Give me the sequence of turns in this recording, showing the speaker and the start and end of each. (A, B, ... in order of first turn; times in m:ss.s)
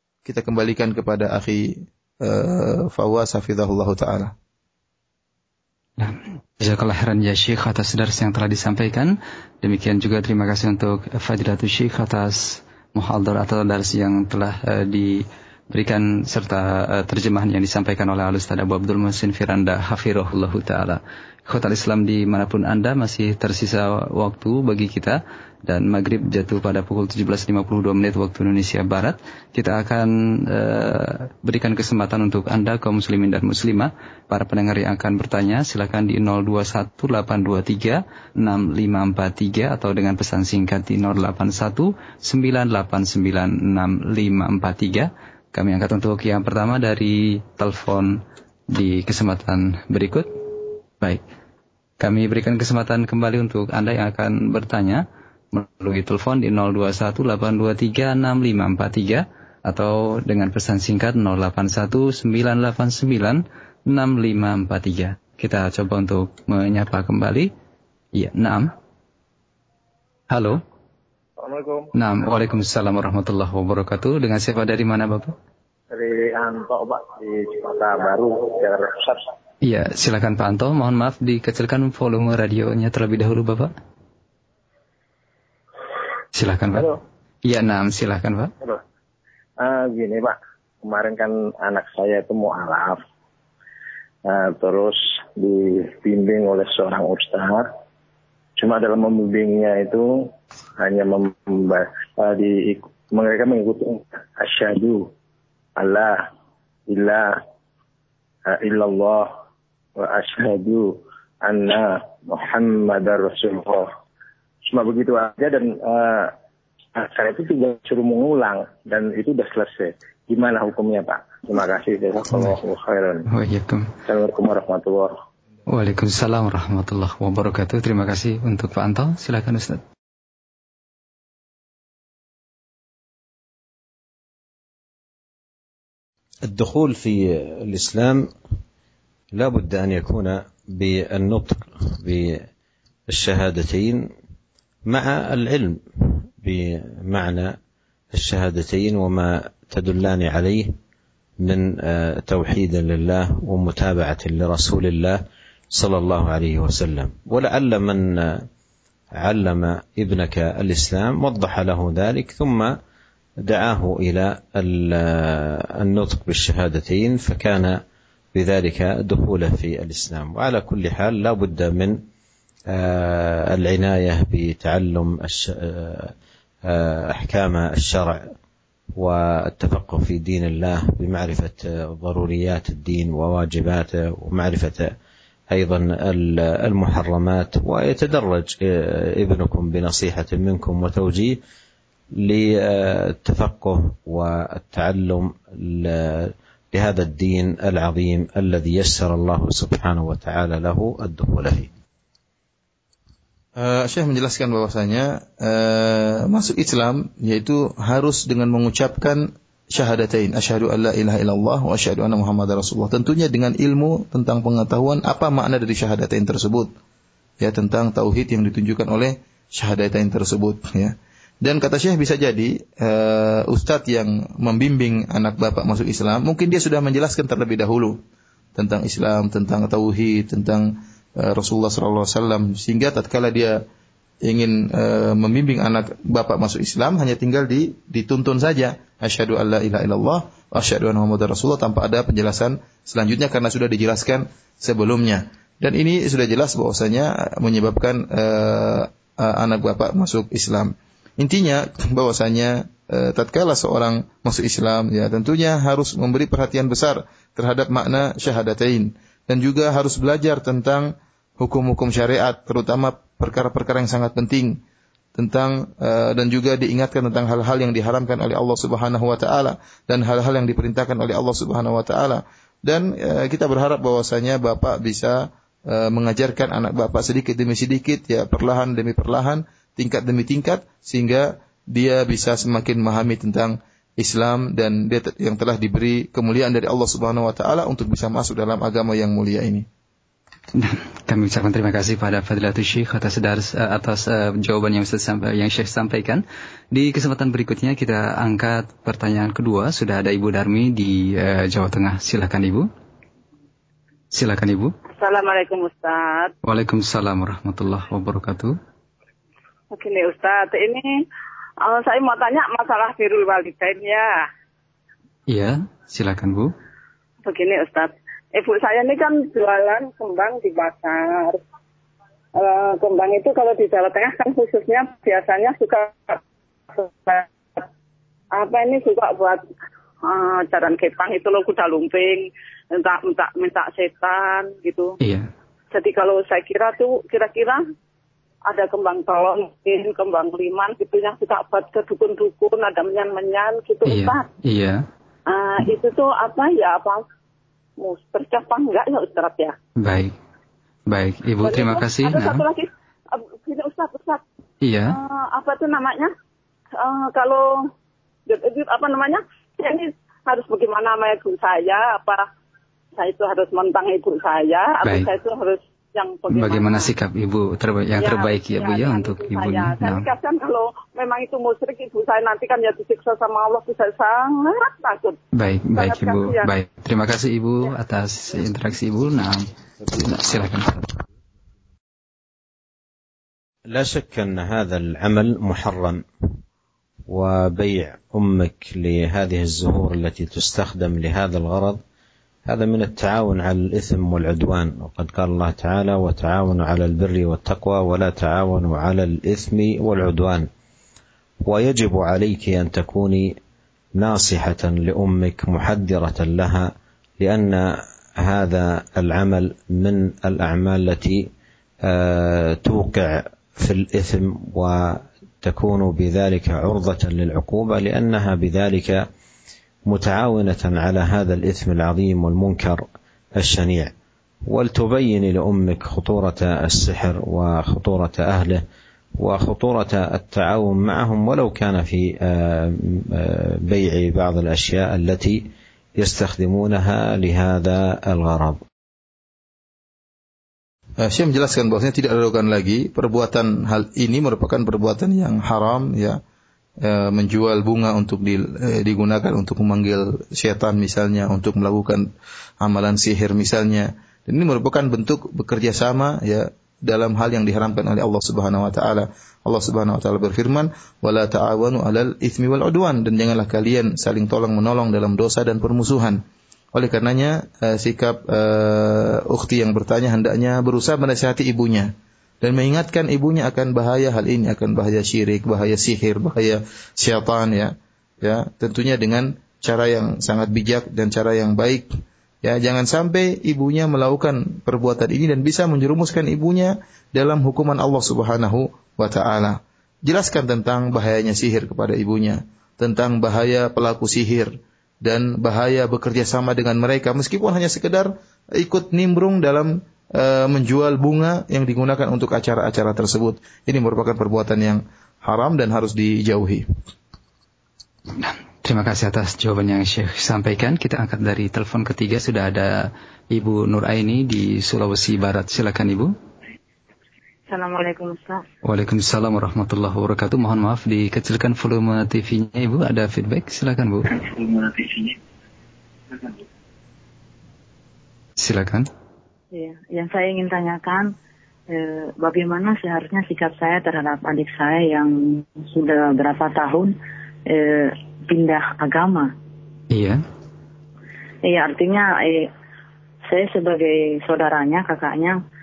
0:00.2-0:04.3 A
0:06.0-0:50.4 B
0:52.0-1:07.5 B
1:08.1-1:08.7 B
1:10.3-1:10.6 B
1:11.4-1:11.9 C
1:11.9-1:15.3 B
1:15.9-1:19.3 C
1:19.6-1:23.7 B
1:26.3-1:28.5 B
1:29.6-1:33.0 C
1:34.2-1:37.7 C
1:38.6-1:45.1 C
1:45.8-1:46.3 C
1:46.9-1:47.4 C
1:48.4-1:49.3 C
1:50.0-1:53.9 C
1:54.7-1:56.3 C
1:56.9-2:03.3 C
2:03.3-2:03.9 B
2:04.0-2:05.2 C
2:05.7-2:09.8 B
2:16.4-2:18.3 D
2:19.3-2:22.4 D
2:23.1-2:24.1 D
2:24.8-2:27.6 D
2:28.1-2:30.8 D
2:31.4-2:38.5 D
2:39.2-2:42.8 D
2:43.4-2:47.8 D
2:48.3-2:52.0 D
2:52.7-2:56.1 D
2:56.6-2:58.3 D
2:59.0-3:04.9 D
3:05.5-3:11.4 D
3:12.2-3:21.7 D
3:23.6-3:36.7 A
3:37.4-3:48.0 A
3:48.6-3:53.6 A
3:54.2-4:24.6 A
4:25.1-4:49.6 A
4:50.5-5:02.7 B
5:04.1-5:04.7 B
5:04.9-5:06.3 E
5:06.4-5:08.5 B
5:09.7-5:11.0 E
5:11.6-5:14.2 E
5:15.3-5:16.5 B
5:17.2-5:21.4 E
5:22.3-5:26.2 E
5:26.7-5:27.6 E
5:28.3-5:29.4 E
5:30.0-5:35.0 E
5:35.0-5:35.3 B
5:35.7-5:37.6 E
5:38.4-5:44.3 E
5:43.8-5:44.8 B
5:45.3-5:47.0 E
5:47.8-5:49.6 E
5:49.8-5:50.1 B
5:50.9-5:52.4 B
5:51.4-5:54.2 E
5:54.6-5:55.0 B
5:54.8-5:56.1 E
5:56.7-5:57.7 E
5:58.3-6:02.2 E
6:03.0-6:06.9 E
6:06.3-6:10.0 B
6:07.9-6:15.2 E
6:15.4-6:21.0 B
6:15.7-6:16.5 E
6:23.7-6:26.0 D
6:27.1-6:31.8 D
6:32.5-6:40.5 D
6:41.4-6:43.4 D
6:44.0-6:51.3 D
6:51.8-6:59.0 D
6:59.8-7:02.8 D
7:03.4-7:03.9 D
7:04.5-7:08.6 D
7:09.2-7:15.4 D
7:16.0-7:18.6 D
7:21.0-7:26.2 A
7:26.8-7:32.1 A
7:32.6-8:26.6 A
8:28.2-8:36.1 B
8:37.5-8:38.4 F
8:38.6-8:44.1 B
8:44.2-8:45.2 F
8:48.4-8:48.9 B
8:49.5-8:51.1 F
8:51.7-8:59.3 F
8:59.9-9:00.2 B
9:01.4-9:02.5 F
9:03.3-9:05.4 F